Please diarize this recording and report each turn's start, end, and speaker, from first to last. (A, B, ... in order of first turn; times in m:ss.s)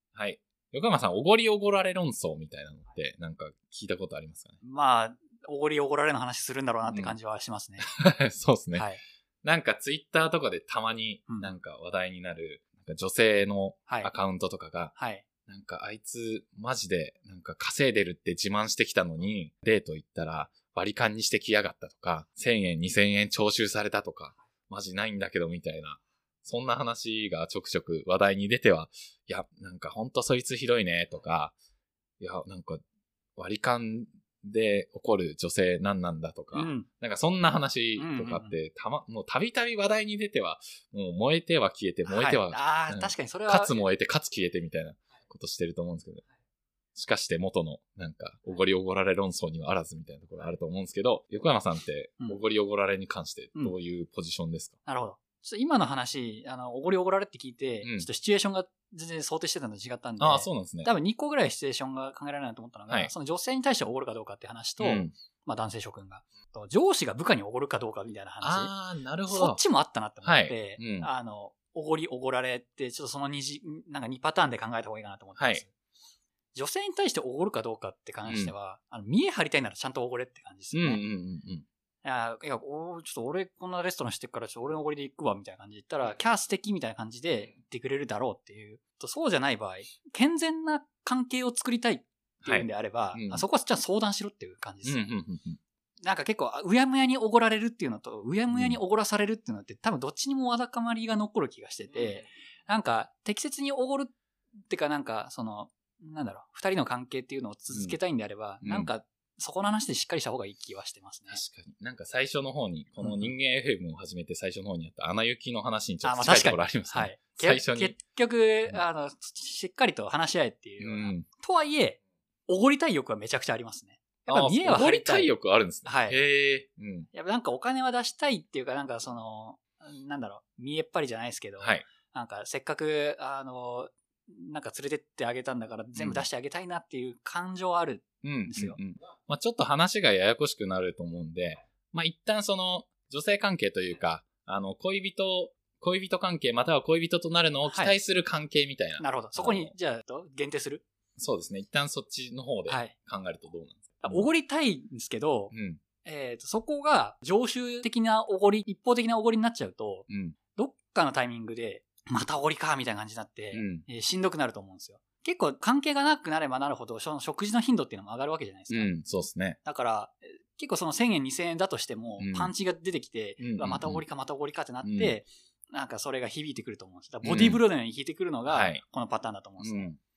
0:00.1-0:04.6 A
0:04.6-0:07.9 B
0:06.9-0:07.2 A
0:07.8-0:08.9 A
0:08.8-0:09.0 B
0:09.4-0:14.9 A
0:13.9-0:14.1 B
0:15.0-0:15.2 B
0:15.5-0:31.6 A
0:32.2-0:32.8 A
0:33.4-0:46.2 A
0:36.5-0:36.9 B
0:38.0-0:38.6 B
0:42.1-0:43.8 B
0:47.0-0:54.8 A
0:54.8-1:08.7 B
0:57.8-0:58.1 A
1:00.2-1:00.9 A
1:04.8-1:05.1 A
1:08.4-1:09.6 A
1:09.3-1:15.7 B
1:10.2-1:11.1 A
1:15.4-1:15.6 A
1:16.5-1:21.0 B
1:18.3-1:18.5 A
1:20.7-1:21.7 A
1:22.0-1:35.1 B
1:32.4-1:33.4 A
1:34.8-1:35.6 A
1:36.0-1:44.1 B
1:38.5-1:38.8 A
1:44.7-1:51.4 B
1:47.7-1:48.0 A
1:48.6-1:48.9 A
1:51.3-1:58.0 A
1:53.0-1:53.3 B
1:56.0-2:05.3 B
2:00.8-2:01.3 A
2:04.3-2:07.1 A
2:05.9-2:06.2 B
2:07.1-2:18.8 B
2:11.6-2:11.9 A
2:16.0-2:16.2 A
2:18.2-2:29.7 A
2:27.7-2:28.0 B
2:29.0-2:30.8 B
2:31.2-2:34.3 A
2:32.7-2:33.0 B
2:34.0-2:48.9 B
2:35.5-2:35.8 A
2:40.1-2:40.4 A
2:43.5-2:43.8 A
2:48.7-2:49.6 A
2:49.6-2:59.9 B
2:52.2-2:52.5 A
2:53.4-2:54.0 A
2:54.8-2:55.2 A
2:57.2-2:57.6 A
2:58.5-2:58.8 A
2:59.6-3:00.0 A